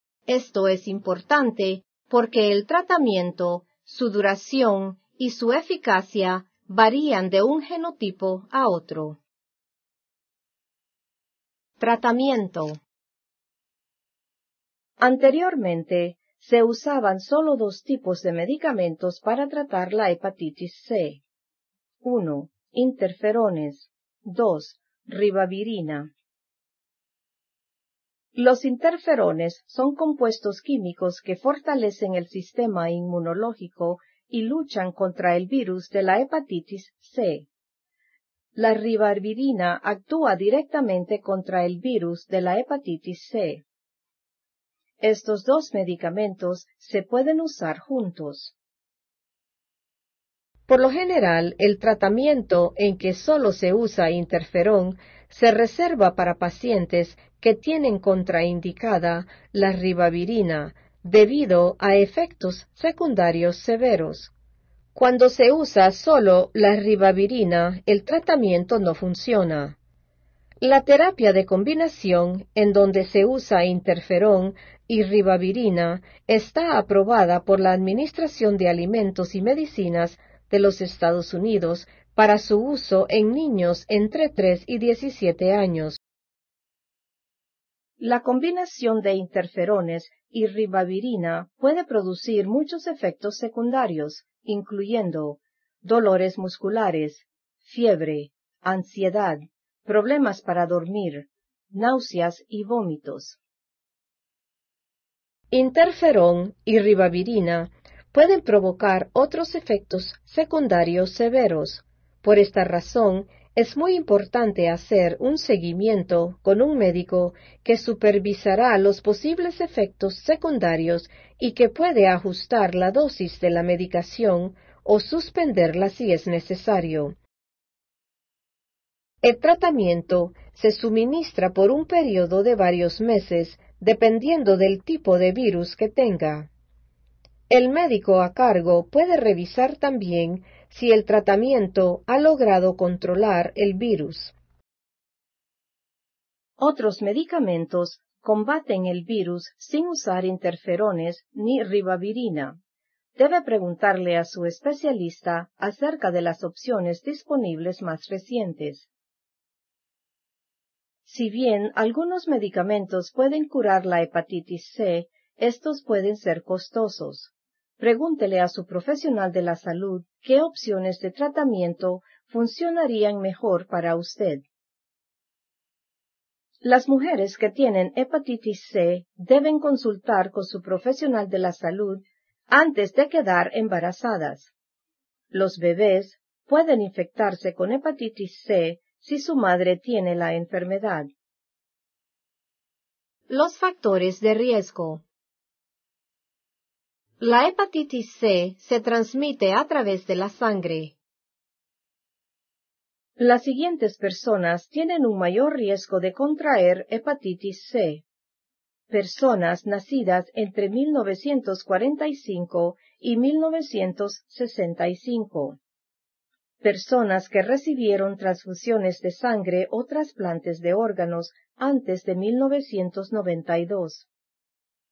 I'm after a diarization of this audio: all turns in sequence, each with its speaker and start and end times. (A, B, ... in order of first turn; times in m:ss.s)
0:00.3-0:09.2 A
0:11.8-0:12.8 A
0:15.0-0:21.2 A
0:22.0-0:26.1 A
0:28.4-0:37.5 A
0:38.6-0:43.6 A
0:45.0-0:48.6 A
0:50.7-1:04.3 A
1:05.0-1:09.8 A
1:10.6-1:26.0 A
1:28.0-1:43.4 A
1:45.5-2:07.2 A
2:09.2-2:16.5 A
2:17.5-2:24.4 A
2:26.6-2:32.6 A
2:33.2-2:38.9 A
2:41.1-2:54.4 A
2:56.6-3:04.5 A
3:05.3-3:11.1 A
3:13.3-3:15.0 A
3:17.2-3:21.0 A
3:23.2-3:28.0 A
3:28.9-3:35.6 A
3:36.6-3:44.1 A